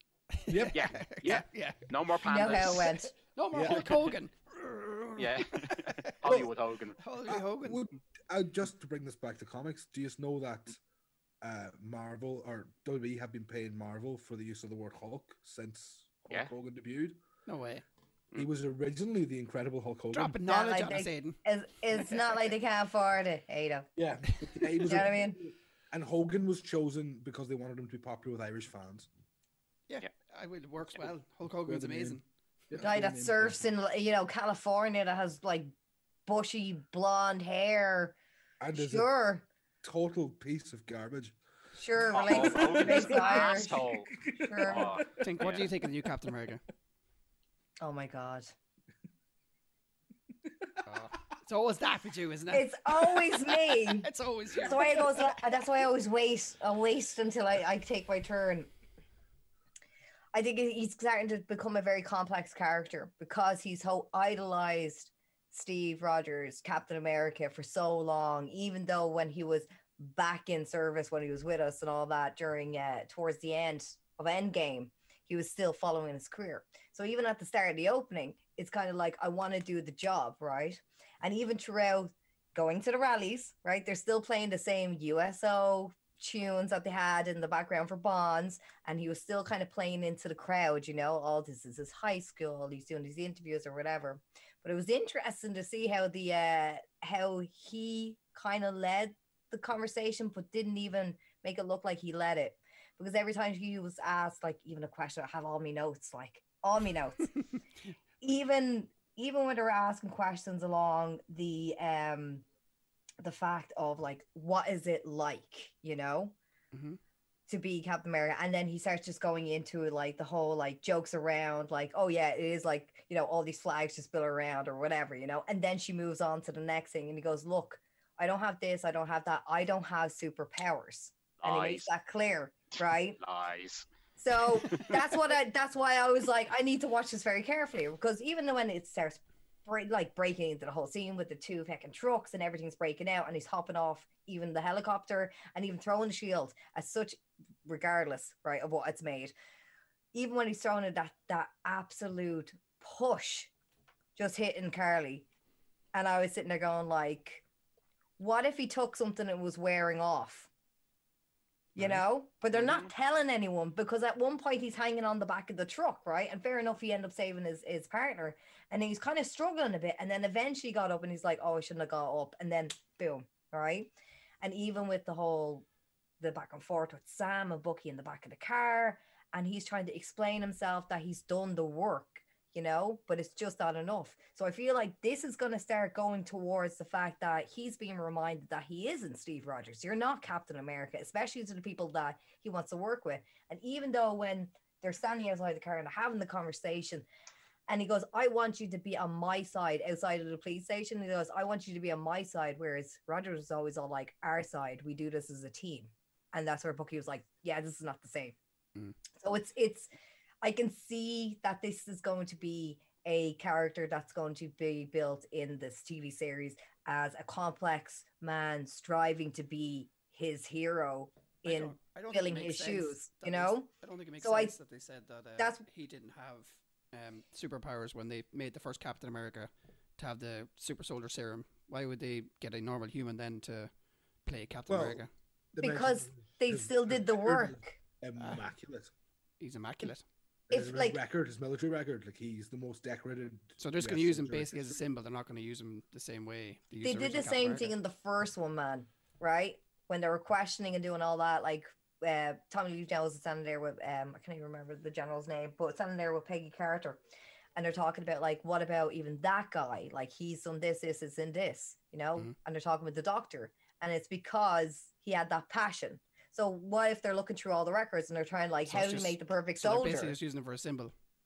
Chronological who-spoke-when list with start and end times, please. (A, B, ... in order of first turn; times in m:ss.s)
0:00.3-0:01.9 A
0:00.5-0:01.4 B
0:00.7-0:03.0 C
0:02.2-0:03.1 D
0:02.4-0:07.8 A
0:03.5-0:04.0 B
0:05.2-0:07.0 C
0:06.2-0:06.5 B
0:07.3-0:10.8 B
0:11.4-0:17.2 B
0:17.5-0:17.8 A
0:18.4-0:20.4 B
0:20.1-0:21.4 A
0:20.4-0:23.9 D
0:22.0-0:22.4 A
0:24.0-0:29.1 B
0:24.8-0:25.4 D
0:29.9-0:32.2 A
0:31.7-0:32.2 B
0:32.7-0:33.6 B
0:32.8-0:35.7 D
0:36.3-0:38.2 D
0:38.6-0:39.1 B
0:38.7-0:39.4 D
0:39.8-0:41.4 B
0:41.8-0:43.8 D
0:42.1-0:45.8 C
0:42.1-0:45.1 B
0:44.4-0:44.9 D
0:45.2-0:46.6 A
0:47.8-0:48.5 D
0:50.8-0:55.4 A
0:52.5-0:54.1 D
0:54.6-0:58.7 D
1:00.3-1:47.3 D
1:48.2-1:52.4 D
1:53.2-1:56.4 D
1:56.7-1:57.0 A
1:57.5-2:13.2 D
2:11.4-2:11.9 C
2:13.2-2:15.1 C
2:14.2-2:29.3 D
2:30.1-2:33.5 D
2:34.2-2:35.3 D
2:35.9-2:37.4 D
2:38.2-2:40.5 D
2:41.8-2:55.7 D
2:42.5-2:42.9 C
2:56.2-3:17.1 D
3:17.7-3:28.4 D
3:29.2-3:29.9 D
3:30.4-3:44.6 D
3:41.5-3:53.7 A
3:45.4-3:45.6 D
3:54.2-3:55.1 A
3:54.7-3:55.0 B
3:55.5-3:58.9 B
3:55.6-3:57.8 D
3:59.4-4:00.0 A
4:00.5-4:01.0 D
4:00.5-4:04.8 B
4:03.6-4:07.7 A
4:06.8-4:17.0 D
4:17.6-4:30.2 D
4:28.7-4:30.9 A